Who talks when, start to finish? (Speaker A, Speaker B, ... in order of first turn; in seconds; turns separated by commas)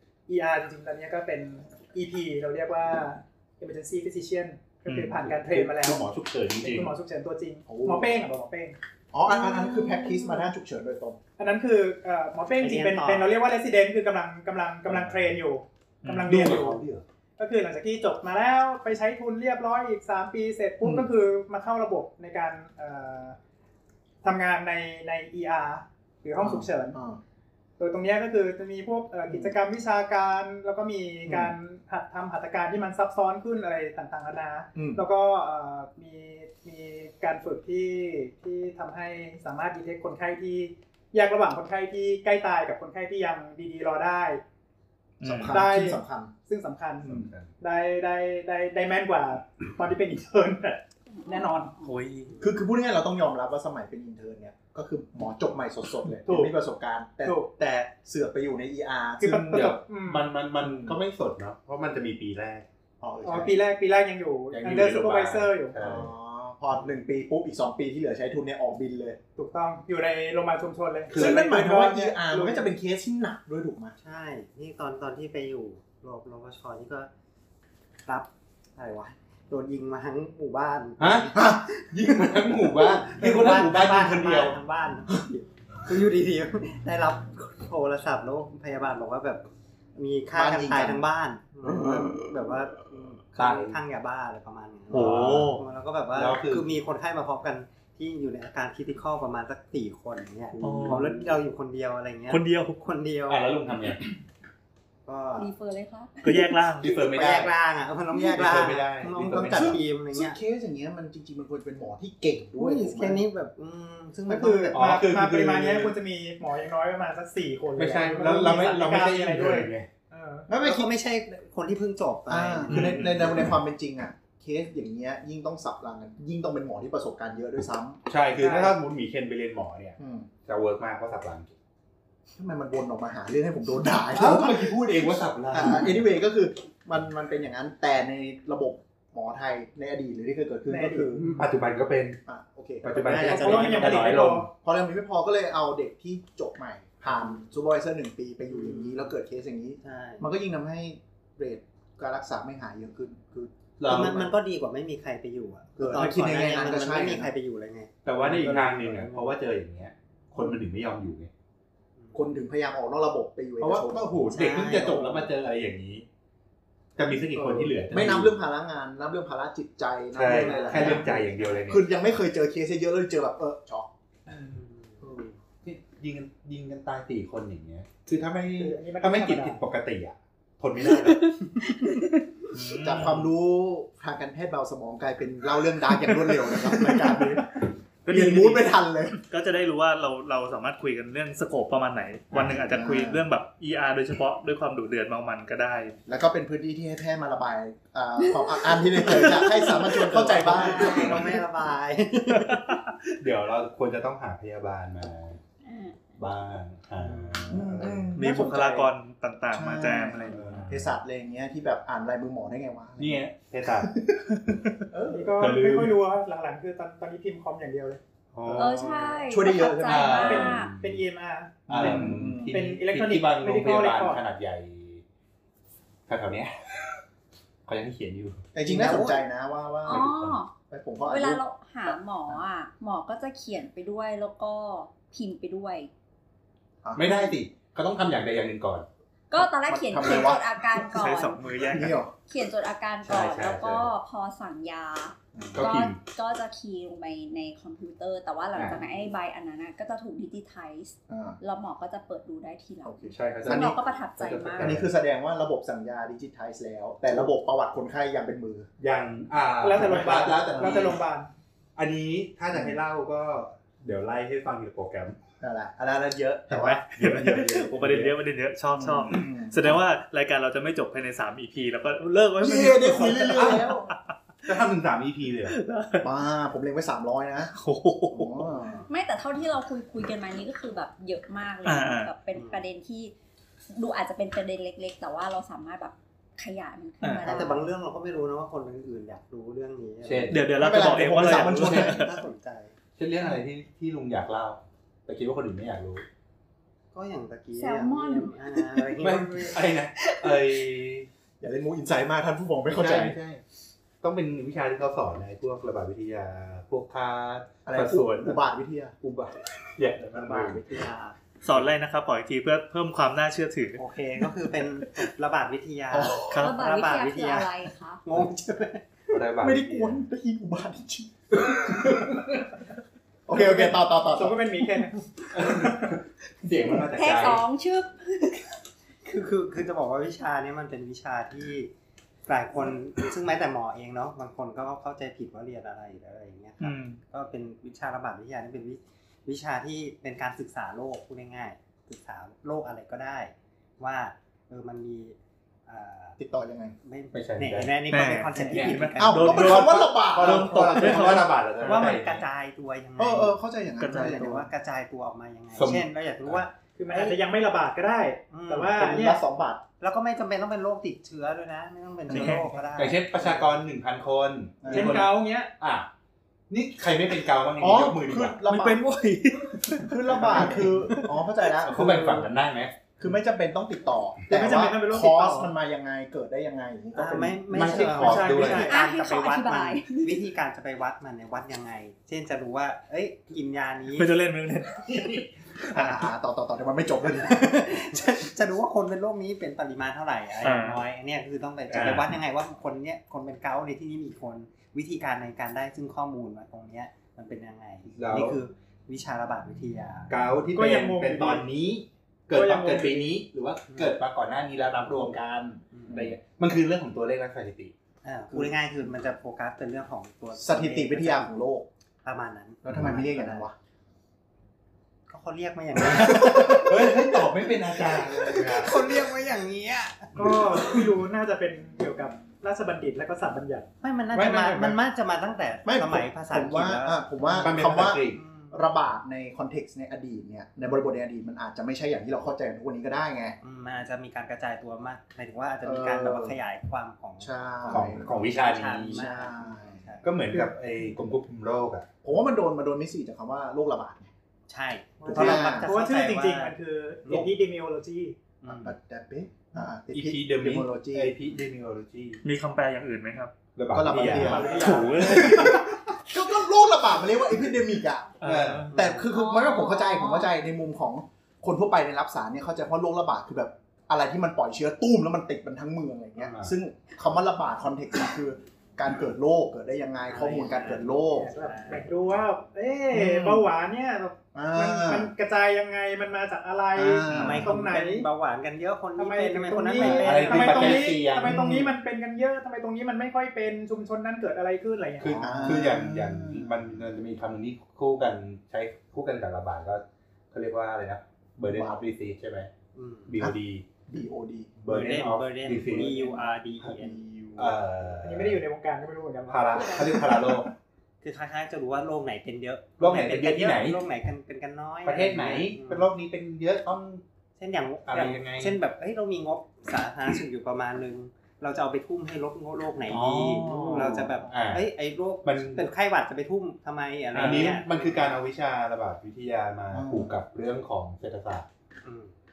Speaker A: 0.3-6.1, Speaker B: 4.9-5.2, Speaker C: 5.2-6.9, Speaker A: 6.6-8.8, Speaker D: 7.7-8.1, Speaker D: 9.1-11.2, Speaker E: 9.2-10.5, Speaker A: 11.4-16.8, Speaker F: 12.6-13.3, Speaker C: 14.9-15.2, Speaker B: 16.0-16.5, Speaker C: 16.3-17.0, Speaker A: 17.4-23.4, Speaker D: 20.8-21.1, Speaker A: 24.2-27.0, Speaker D: 26.4-27.2, Speaker A: 27.8-44.4, Speaker D: 31.3-31.5, Speaker D: 34.7-35.0, Speaker B: 45.2-45.6, Speaker D: 45.2-46.3, Speaker A: 45.5-51.7, Speaker C: 47.0-47.5, Speaker D: 47.0-47.3, Speaker E: 51.2-51.7, Speaker B: 51.8-52.3, Speaker D: 52.4-59.8, Speaker A: 56.2-56.5, Speaker A: 57.2-57.5, Speaker A: 59.2-60.3, Speaker C: 59.5-62.7, Speaker D: 60.6-61.0, Speaker D: 63.0-63.5, Speaker C: 63.2-63.5, Speaker A: 63.2-65.8, Speaker C: 64.5-66.1, Speaker D: 65.8-69.2, Speaker A: 69.3-72.7, Speaker C: 71.1-71.4, Speaker D: 71.1-74.0, Speaker F: 74.0-77.1, Speaker F: 78.0-81.6, Speaker C: 81.0-84.6, Speaker D: 81.3-82.4, Speaker F: 82.8-89.4, Speaker F: 89.9-103.5, Speaker D: 90.3-91.0, Speaker D: 91.6-92.3, Speaker C: 93.3-93.8, Speaker C: 94.9-95.6, Speaker B: 95.3-95.5, Speaker C: 96.1-96.7, Speaker D: 100.6-100.9, Speaker B: 100.6-101.1, Speaker B: 102.3-102.8, Speaker C: 103.3-104.0, Speaker F: 105.0-105.5, Speaker E: 105.3-106.7, Speaker B: 106.2-106.9, Speaker C: 106.8-107.5, Speaker F: 106.9-110.4, Speaker C: 108.1-109.8, Speaker D: 109.3-113.2, Speaker F: 112.6-114.9, Speaker A: 114.3-120.5, Speaker C: 114.7-116.0, Speaker C: 117.8-119.9, Speaker D: 120.5-120.9, Speaker F: 120.5-123.1, Speaker D: 122.3-128.0, Speaker C: 122.7-123.4, Speaker B: 122.7-123.0, Speaker C: 128.1-131.5, Speaker A: 128.4-128.8, Speaker D: 130.0-130.3, Speaker D: 132.3-141.3, Speaker C: 134.1-136.1, Speaker A: 140.7-141.2, Speaker C: 141.2-142.2, Speaker D: 142.3-143.8, Speaker C: 142.8-144.5, Speaker F: 142.9-144.3, Speaker A: 143.3-144.5, Speaker D: 144.5-153.5, Speaker F: 147.1-147.4, Speaker F: 148.5-149.1, Speaker F: 149.8-150.3, Speaker C: 153.8-154.3, Speaker F: 153.8-159.4, Speaker D: 155.8-157.3, Speaker C: 158.0-161.3, Speaker F: 162.0-162.2, Speaker D: 162.1-164.3, Speaker C: 163.6-166.1, Speaker F: 164.3-165.3, Speaker C: 166.9-168.4, Speaker D: 167.3-171.2, Speaker C: 170.1-171.8, Speaker F: 170.2-171.8, Speaker D: 171.7-173.9, Speaker F: 174.4-175.1, Speaker D: 175.0-175.3, Speaker C: 175.6-181.3, Speaker A: 178.5-179.6, Speaker E: 181.0-182.1, Speaker B: 182.5-183.3, Speaker D: 182.8-187.5, Speaker C: 186.7-187.4, Speaker C: 188.1-188.6, Speaker D: 188.1-189.2, Speaker B: 189.2-196.0, Speaker D: 192.4-193.2, Speaker D: 196.1-201.3, Speaker F: 199.1-202.7, Speaker C: 200.4-201.2, Speaker B: 202.3-202.8, Speaker C: 203.2-205.4, Speaker E: 205.6-206.2, Speaker C: 206.2-208.2, Speaker F: 207.0-208.0, Speaker D: 207.5-208.4, Speaker B: 208.2-210.7, Speaker D: 209.5-213.2, Speaker C: 210.3-210.9, Speaker C: 213.0-214.0, Speaker D: 214.9-215.5, Speaker A: 215.1-218.0, Speaker C: 215.4-216.0, Speaker C: 218.3-221.0, Speaker E: 218.5-220.7, Speaker D: 219.3-220.3, Speaker A: 220.1-224.2, Speaker D: 221.7-222.6, Speaker C: 221.7-225.0, Speaker C: 226.1-226.5, Speaker C: 227.7-228.5, Speaker D: 228.5-230.1, Speaker F: 228.6-229.2, Speaker E: 229.8-230.5, Speaker C: 229.8-230.4, Speaker D: 230.7-232.4, Speaker E: 231.0-235.9, Speaker D: 236.8-237.2, Speaker C: 236.9-238.8, Speaker E: 239.3-241.4, Speaker D: 239.3-240.7, Speaker B: 240.9-242.0, Speaker D: 241.7-242.1, Speaker E: 242.3-254.8, Speaker C: 243.0-243.9, Speaker D: 245.3-245.7, Speaker C: 245.5-246.0, Speaker C: 248.5-248.8, Speaker D: 251.1-251.4, Speaker D: 252.8-253.8, Speaker C: 253.1-254.9, Speaker D: 254.6-258.7, Speaker C: 258.8-261.0, Speaker A: 259.6-261.3, Speaker D: 259.8-260.9, Speaker C: 261.8-265.2, Speaker D: 262.5-262.8, Speaker D: 265.4-267.7, Speaker B: 266.5-273.9, Speaker C: 266.6-268.1, Speaker D: 268.7-269.8, Speaker D: 272.4-273.9, Speaker C: 273.2-273.8, Speaker C: 274.4-275.6, Speaker B: 275.5-276.1, Speaker D: 276.0-277.5, Speaker B: 277.5-278.5, Speaker D: 278.1-278.8, Speaker E: 278.9-283.1, Speaker B: 281.6-282.1, Speaker F: 282.3-282.7, Speaker E: 283.7-287.7, Speaker B: 287.0-287.3, Speaker F: 287.2-290.5, Speaker C: 290.0-292.0, Speaker B: 290.3-292.1, Speaker D: 290.6-292.0, Speaker F: 291.6-292.8, Speaker C: 292.9-296.0, Speaker F: 296.9-299.6, Speaker E: 297.5-298.6, Speaker C: 299.0-301.1, Speaker D: 301.4-303.1, Speaker C: 302.7-303.4, Speaker C: 304.0-308.4, Speaker D: 307.6-308.9, Speaker C: 309.0-310.6, Speaker F: 310.1-311.2, Speaker B: 311.4-313.8, Speaker F: 313.8-318.9, Speaker D: 315.9-316.3, Speaker B: 316.3-316.6, Speaker E: 316.3-318.0, Speaker C: 319.1-320.0, Speaker D: 319.4-321.9, Speaker C: 321.3-322.4, Speaker D: 323.3-324.4, Speaker A: 323.3-325.2, Speaker C: 325.3-327.4, Speaker E: 326.6-328.5, Speaker F: 329.0-331.7, Speaker F: 332.3-345.1, Speaker B: 336.6-337.0, Speaker F: 345.7-346.2, Speaker D: 346.2-346.7, Speaker F: 346.8-349.6, Speaker C: 347.1-347.7, Speaker B: 347.9-351.3, Speaker C: 348.5-352.3, Speaker D: 349.0-351.3, Speaker F: 351.6-353.4, Speaker D: 353.0-354.5, Speaker B: 353.8-354.4, Speaker F: 353.9-357.2, Speaker C: 355.5-356.4, Speaker A: 356.8-359.2, Speaker F: 358.3-358.8, Speaker D: 358.7-359.6, Speaker F: 359.8-363.6, Speaker B: 362.1-362.5, Speaker C: 362.1-365.9, Speaker D: 364.6-365.0, Speaker A: 364.7-365.5, Speaker C: 366.5-368.4, Speaker D: 367.6-368.8, Speaker B: 368.4-371.1, Speaker D: 369.8-372.2, Speaker C: 370.1-370.7, Speaker F: 370.3-370.6, Speaker C: 371.6-372.9, Speaker D: 373.0-378.0, Speaker A: 374.3-375.5, Speaker F: 376.9-384.1, Speaker C: 377.5-378.7, Speaker A: 377.9-378.9, Speaker E: 378.6-380.3, Speaker B: 383.9-385.2, Speaker C: 384.8-385.3, Speaker D: 385.7-387.9, Speaker B: 385.7-386.0, Speaker F: 387.2-400.2, Speaker B: 390.4-390.8, Speaker C: 391.7-392.1, Speaker C: 397.9-398.4, Speaker C: 400.1-407.7, Speaker A: 400.5-401.5, Speaker A: 402.3-403.1, Speaker F: 403.7-404.0, Speaker F: 405.7-406.1, Speaker F: 408.0-411.3, Speaker D: 410.4-411.6, Speaker F: 412.0-413.5, Speaker D: 412.6-413.5, Speaker F: 415.1-420.9, Speaker C: 415.8-418.8, Speaker D: 416.3-416.7, Speaker A: 420.1-423.7, Speaker F: 423.8-427.0, Speaker C: 424.1-424.8, Speaker D: 425.6-433.4, Speaker C: 427.3-428.2, Speaker F: 428.1-428.6, Speaker F: 433.4-440.1, Speaker D: 435.6-436.4, Speaker D: 437.2-438.1, Speaker C: 437.7-439.1, Speaker D: 438.9-439.8, Speaker C: 440.0-441.9, Speaker D: 442.0-444.1, Speaker F: 444.5-447.3, Speaker D: 445.1-445.7, Speaker A: 445.2-448.3, Speaker F: 448.4-448.7, Speaker D: 448.5-451.1, Speaker C: 449.9-452.2, Speaker B: 452.2-453.3, Speaker C: 453.6-455.5, Speaker D: 453.7-458.2, Speaker B: 454.0-455.5, Speaker A: 454.1-455.6, Speaker B: 458.2-458.7, Speaker C: 458.2-458.7, Speaker F: 458.7-459.0, Speaker D: 458.7-471.3, Speaker E: 459.0-460.3, Speaker C: 466.2-466.6, Speaker F: 470.1-471.9, Speaker A: 471.3-478.1, Speaker D: 472.9-473.4, Speaker D: 474.3-475.1, Speaker D: 476.8-477.6, Speaker C: 477.1-477.5, Speaker F: 477.1-480.9, Speaker A: 478.9-485.2, Speaker C: 479.8-481.5, Speaker D: 481.2-481.7, Speaker C: 485.0-492.5, Speaker D: 485.2-486.8, Speaker D: 491.4-491.8, Speaker F: 492.7-493.1, Speaker C: 493.1-493.6, Speaker D: 493.9-494.5, Speaker C: 494.6-496.1, Speaker F: 494.7-497.0, Speaker D: 495.9-496.1, Speaker D: 496.8-497.6, Speaker C: 497.4-498.4, Speaker A: 498.0-499.6, Speaker C: 499.3-500.5, Speaker E: 499.6-499.9, Speaker F: 501.0-505.9, Speaker C: 502.8-503.8, Speaker C: 504.8-507.0, Speaker F: 507.4-518.2, Speaker C: 507.9-508.6, Speaker B: 512.9-514.1, Speaker C: 513.7-514.7, Speaker C: 515.2-515.7, Speaker C: 517.1-521.5, Speaker B: 517.1-517.6, Speaker D: 519.7-520.1, Speaker F: 521.8-522.1